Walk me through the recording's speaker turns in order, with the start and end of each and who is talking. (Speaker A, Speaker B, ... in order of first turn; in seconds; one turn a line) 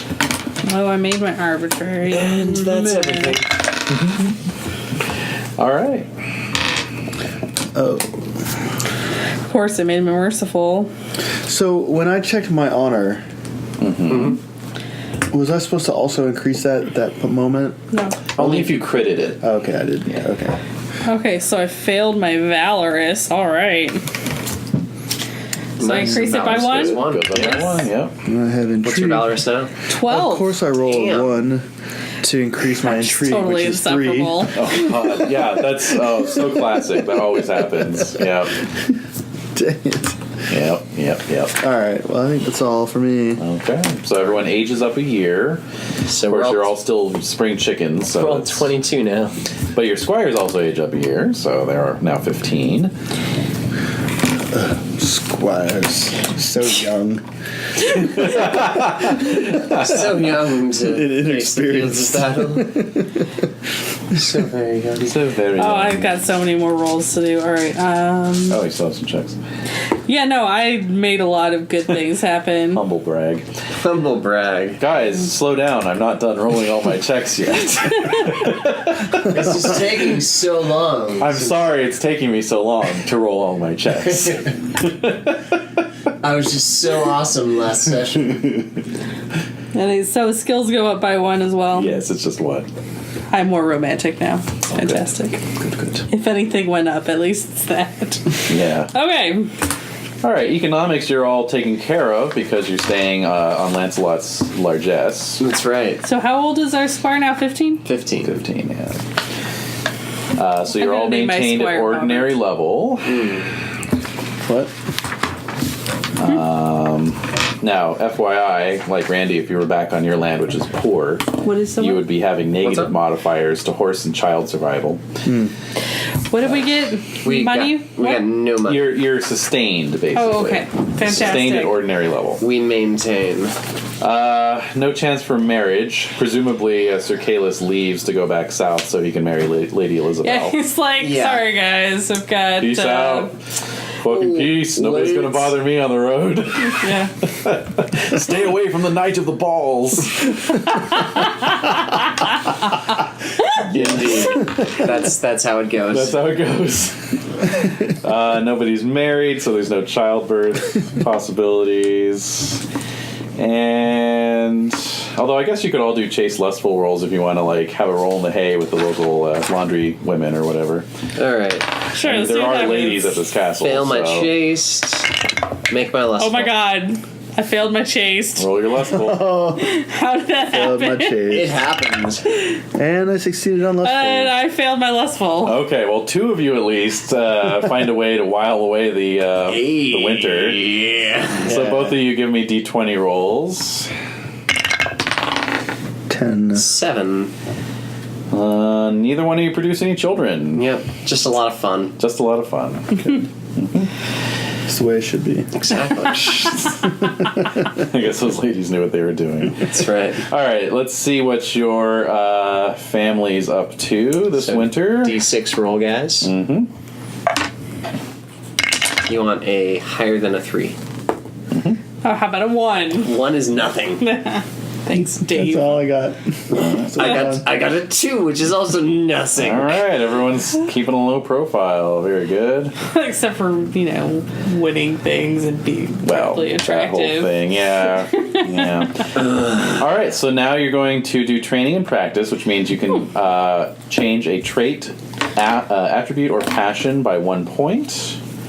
Speaker A: 0.6-3.4
Speaker B: 2.1-3.5
Speaker C: 3.9-4.3
Speaker C: 5.6-6.1
Speaker D: 7.7-8.2
Speaker A: 9.5-10.9
Speaker D: 11.5-13.2
Speaker C: 13.8-14.4
Speaker B: 14.1-14.4
Speaker D: 15.3-17.8
Speaker A: 17.9-18.3
Speaker C: 18.4-19.4
Speaker B: 18.4-18.8
Speaker D: 19.4-20.6
Speaker A: 21.1-24.0
Speaker B: 25.8-27.9
Speaker A: 25.8-27.1
Speaker C: 26.1-28.1
Speaker D: 28.3-29.4
Speaker B: 28.8-29.7
Speaker A: 29.9-30.5
Speaker D: 30.0-31.7
Speaker B: 30.9-31.4
Speaker D: 32.2-35.5
Speaker A: 32.8-34.7
Speaker C: 34.5-38.6
Speaker D: 36.1-37.2
Speaker D: 37.8-38.0
Speaker D: 39.5-40.2
Speaker C: 40.5-41.6
Speaker D: 41.6-43.4
Speaker C: 43.4-45.6
Speaker B: 46.1-46.7
Speaker C: 46.2-48.7
Speaker B: 48.1-49.3
Speaker C: 49.7-52.9
Speaker D: 54.5-57.2
Speaker D: 57.9-58.9
Speaker C: 58.0-60.2
Speaker B: 59.5-62.9
Speaker D: 60.8-63.2
Speaker B: 64.1-65.2
Speaker C: 65.0-66.2
Speaker A: 65.6-68.6
Speaker C: 68.5-69.4
Speaker A: 70.1-72.8
Speaker C: 72.7-73.5
Speaker B: 73.8-74.8
Speaker C: 74.8-79.8
Speaker B: 79.2-81.5
Speaker C: 81.2-85.6
Speaker B: 86.2-88.5
Speaker A: 89.7-92.0
Speaker C: 91.7-92.7
Speaker A: 93.3-95.4
Speaker C: 94.7-95.0
Speaker C: 95.7-96.0
Speaker A: 96.1-99.5
Speaker C: 98.5-98.9
Speaker C: 100.2-105.4
Speaker B: 105.4-106.0
Speaker A: 106.0-107.8
Speaker B: 107.8-108.3
Speaker C: 108.2-109.0
Speaker C: 110.4-113.2
Speaker A: 110.7-112.4
Speaker B: 113.0-113.5
Speaker D: 114.5-114.7
Speaker C: 116.2-125.0
Speaker A: 121.4-122.1
Speaker B: 122.6-122.9
Speaker D: 125.2-125.5
Speaker A: 126.3-128.2
Speaker B: 127.2-128.9
Speaker C: 128.7-132.4
Speaker A: 130.1-131.8
Speaker B: 132.4-133.6
Speaker C: 134.0-140.6
Speaker A: 140.2-143.3
Speaker B: 141.0-141.5
Speaker C: 142.6-143.3
Speaker C: 144.0-151.4
Speaker B: 144.1-145.6
Speaker A: 146.7-147.1
Speaker C: 153.6-154.4
Speaker B: 153.7-156.3
Speaker C: 155.9-162.6
Speaker C: 163.4-170.9
Speaker B: 171.2-171.7
Speaker A: 171.9-173.2
Speaker C: 172.0-174.3
Speaker B: 173.6-175.1
Speaker B: 175.7-176.5
Speaker A: 176.2-178.5
Speaker C: 178.4-179.4
Speaker D: 178.9-179.8
Speaker A: 179.6-181.2
Speaker D: 180.5-181.6
Speaker B: 181.3-182.3
Speaker D: 182.7-184.4
Speaker A: 183.8-185.6
Speaker C: 185.4-190.6
Speaker B: 189.5-191.6
Speaker C: 191.4-193.9
Speaker D: 196.1-196.7
Speaker B: 196.6-197.3
Speaker C: 198.3-200.7
Speaker B: 200.6-202.0
Speaker C: 202.0-203.9
Speaker D: 204.7-205.5
Speaker B: 205.5-206.6
Speaker C: 206.1-215.2
Speaker B: 209.6-210.2
Speaker B: 214.3-216.3
Speaker C: 216.2-216.7
Speaker B: 219.1-220.8
Speaker C: 221.5-221.8
Speaker A: 222.0-223.2
Speaker B: 223.0-224.1
Speaker A: 224.0-225.8
Speaker D: 225.3-227.4
Speaker B: 226.5-229.8
Speaker C: 229.4-232.8
Speaker A: 232.9-239.1
Speaker C: 236.0-248.2
Speaker B: 239.4-239.7